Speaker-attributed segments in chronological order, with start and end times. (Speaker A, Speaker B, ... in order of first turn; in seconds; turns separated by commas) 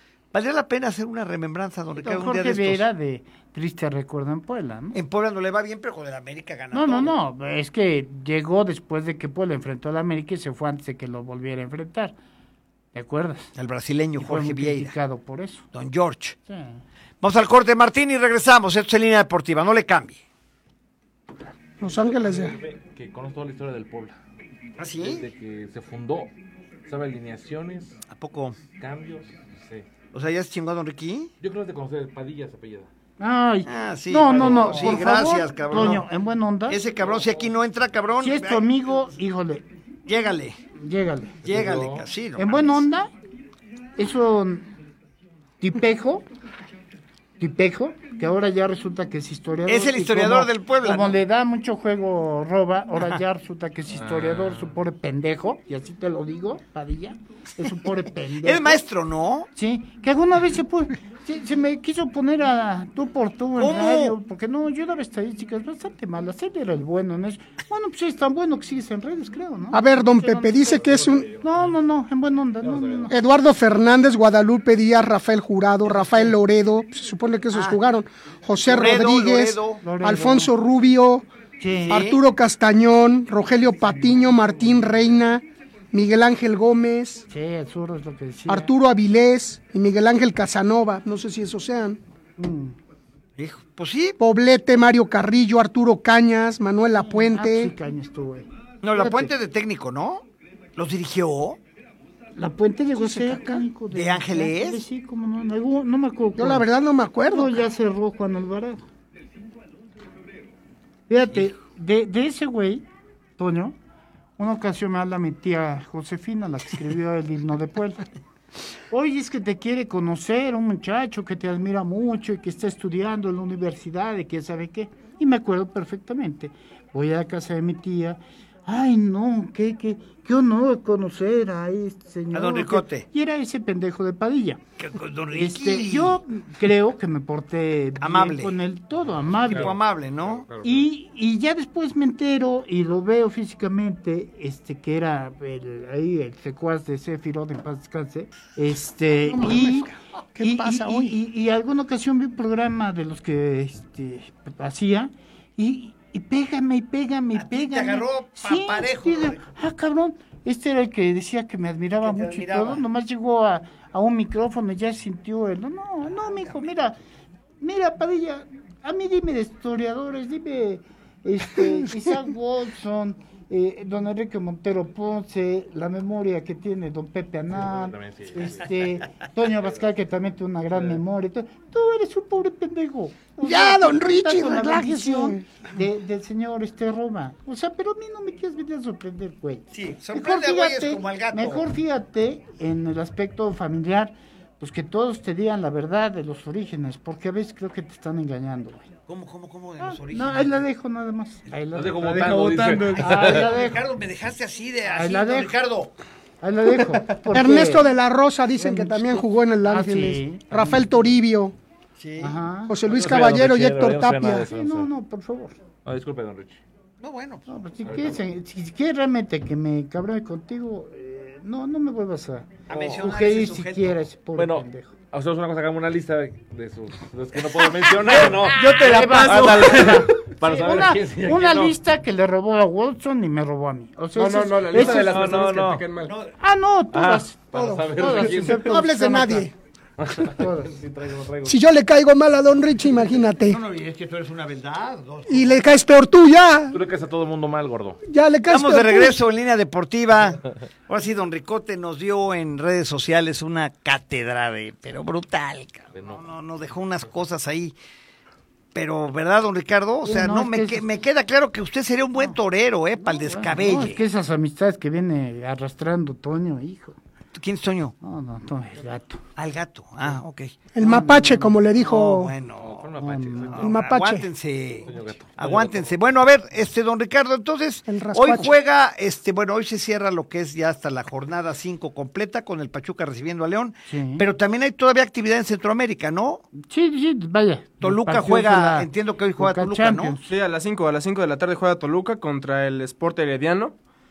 Speaker A: 0.3-2.8, Speaker B: 2.0-5.0, Speaker A: 4.9-7.1, Speaker B: 6.7-12.1, Speaker B: 12.9-13.5, Speaker A: 13.6-14.9, Speaker B: 14.2-15.7, Speaker A: 15.7-16.4, Speaker B: 16.5-16.8, Speaker A: 17.2-20.2, Speaker C: 21.8-22.6, Speaker D: 21.8-24.2, Speaker A: 24.8-25.3, Speaker D: 25.0-26.3, Speaker D: 26.9-28.0, Speaker A: 28.1-28.6, Speaker D: 28.7-29.9, Speaker A: 30.1-31.3, Speaker D: 31.4-32.9, Speaker B: 33.2-36.8, Speaker A: 33.7-36.0, Speaker D: 34.3-35.0, Speaker A: 36.7-38.7, Speaker D: 37.0-37.3, Speaker B: 38.2-39.6, Speaker A: 40.1-40.6, Speaker B: 40.7-41.4, Speaker D: 41.4-42.0, Speaker A: 41.4-42.8, Speaker B: 42.4-43.1, Speaker B: 44.0-44.7, Speaker B: 45.6-46.3, Speaker B: 47.4-58.8, Speaker A: 49.7-51.2, Speaker D: 53.9-54.7, Speaker A: 58.4-59.5, Speaker B: 59.5-73.1, Speaker A: 63.6-64.2, Speaker C: 69.7-71.3, Speaker D: 70.6-71.8, Speaker D: 72.6-73.1, Speaker C: 73.1-81.2, Speaker A: 78.6-79.8, Speaker B: 79.8-80.5, Speaker B: 81.6-82.0, Speaker C: 81.9-87.3, Speaker A: 81.9-82.2, Speaker B: 83.9-84.6, Speaker B: 87.3-88.7, Speaker C: 88.5-92.0, Speaker B: 92.4-92.8, Speaker A: 93.4-94.2, Speaker C: 94.2-97.7, Speaker B: 97.0-99.3, Speaker A: 98.8-100.2, Speaker A: 100.8-101.6, Speaker B: 102.3-106.7, Speaker C: 102.9-103.7, Speaker A: 103.9-104.8, Speaker C: 106.3-107.6, Speaker B: 107.2-108.8, Speaker B: 111.1-112.8, Speaker B: 113.4-113.8, Speaker B: 114.4-118.0, Speaker B: 118.9-134.6, Speaker A: 132.3-133.1, Speaker A: 134.8-136.2, Speaker B: 135.3-139.8, Speaker A: 138.0-138.5, Speaker D: 139.3-140.8, Speaker A: 139.4-140.5, Speaker B: 140.6-167.0, Speaker C: 149.2-151.2, Speaker A: 157.3-159.4, Speaker A: 162.0-162.8, Speaker B: 167.6-198.9, Speaker D: 177.5-178.7, Speaker D: 180.7-181.0, Speaker C: 183.4-185.4, Speaker A: 189.7-191.7, Speaker A: 199.1-200.6, Speaker B: 199.8-203.8, Speaker D: 201.7-203.5, Speaker A: 203.0-205.9, Speaker B: 204.8-205.5, Speaker B: 206.4-207.9, Speaker C: 207.3-211.5, Speaker B: 208.6-210.9, Speaker A: 212.0-212.4, Speaker B: 212.2-212.8, Speaker C: 212.7-214.5, Speaker D: 212.8-214.9, Speaker B: 214.5-215.6, Speaker D: 215.8-216.6, Speaker A: 217.0-217.5, Speaker B: 217.5-224.9, Speaker D: 217.8-218.2, Speaker D: 222.7-223.0, Speaker A: 222.7-224.0, Speaker D: 224.3-231.8, Speaker A: 228.2-229.9, Speaker B: 228.2-235.2, Speaker E: 229.1-229.5, Speaker E: 234.1-236.1, Speaker D: 234.7-235.8, Speaker A: 236.1-236.3, Speaker B: 236.4-239.5, Speaker D: 236.9-238.8, Speaker C: 237.5-239.5, Speaker D: 240.0-241.6, Speaker B: 240.2-240.7, Speaker C: 241.4-243.6, Speaker A: 243.4-245.7, Speaker C: 245.3-246.8, Speaker D: 246.7-248.0, Speaker C: 248.1-249.1, Speaker A: 248.5-257.7, Speaker D: 255.9-256.2, Speaker A: 258.7-264.0, Speaker B: 260.0-260.9, Speaker B: 263.0-267.0, Speaker A: 267.3-267.9, Speaker B: 268.0-269.2, Speaker A: 269.4-270.6, Speaker C: 270.7-272.3, Speaker B: 270.8-271.7, Speaker A: 271.8-272.9, Speaker D: 272.6-273.9, Speaker B: 273.0-273.7, Speaker A: 273.4-286.5, Speaker C: 273.6-274.3, Speaker D: 274.8-275.9, Speaker C: 277.9-278.5, Speaker B: 283.9-284.2, Speaker B: 286.6-290.3, Speaker A: 287.8-290.1, Speaker E: 290.3-293.7